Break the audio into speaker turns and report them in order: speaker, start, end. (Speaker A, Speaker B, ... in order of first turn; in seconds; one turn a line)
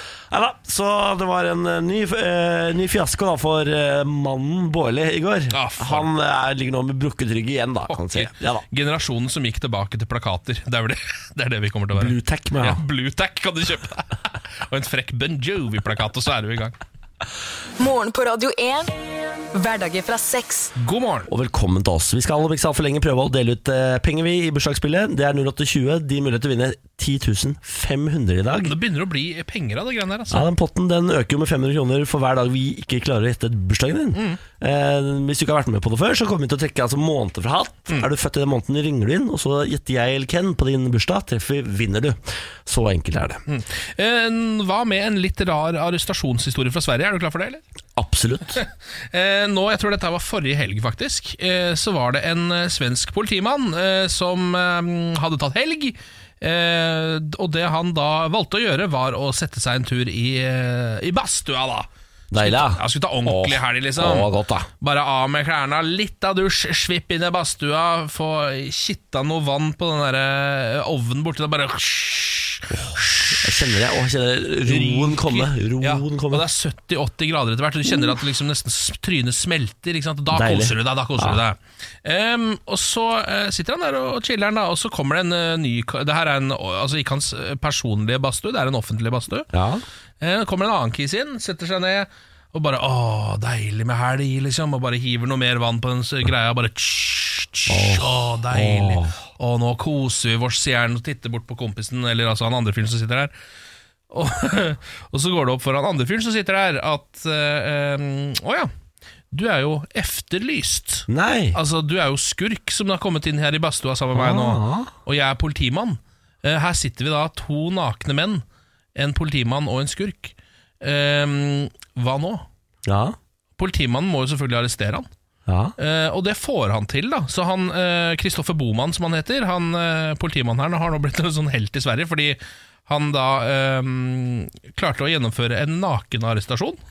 Speaker A: 0.3-8.6
Speaker B: 5.5-6.1
Speaker B: 7.9-16.8
Speaker A: 11.9-12.8
Speaker C: 17.8-18.9
Speaker C: 19.5-20.7
Speaker B: 20.8-21.3
Speaker A: 21.3-28.8
Speaker B: 28.6-30.5
Speaker A: 30.3-43.4
Speaker B: 34.1-34.4
Speaker B: 43.5-47.6
Speaker A: 48.0-48.6
Speaker B: 48.5-73.6
Speaker A: 62.3-64.7
Speaker A: 72.7-76.5
Speaker B: 74.6-89.5
Speaker A: 80.3-81.4
Speaker A: 89.5-89.8
Speaker B: 90.2-103.3
Speaker A: 97.7-99.2
Speaker B: 104.1-108.7
Speaker B: 109.3-122.5
Speaker A: 111.1-111.6
Speaker A: 114.1-114.9
Speaker A: 122.9-123.2
Speaker B: 123.6-125.1
Speaker A: 125.5-125.8
Speaker B: 125.8-136.8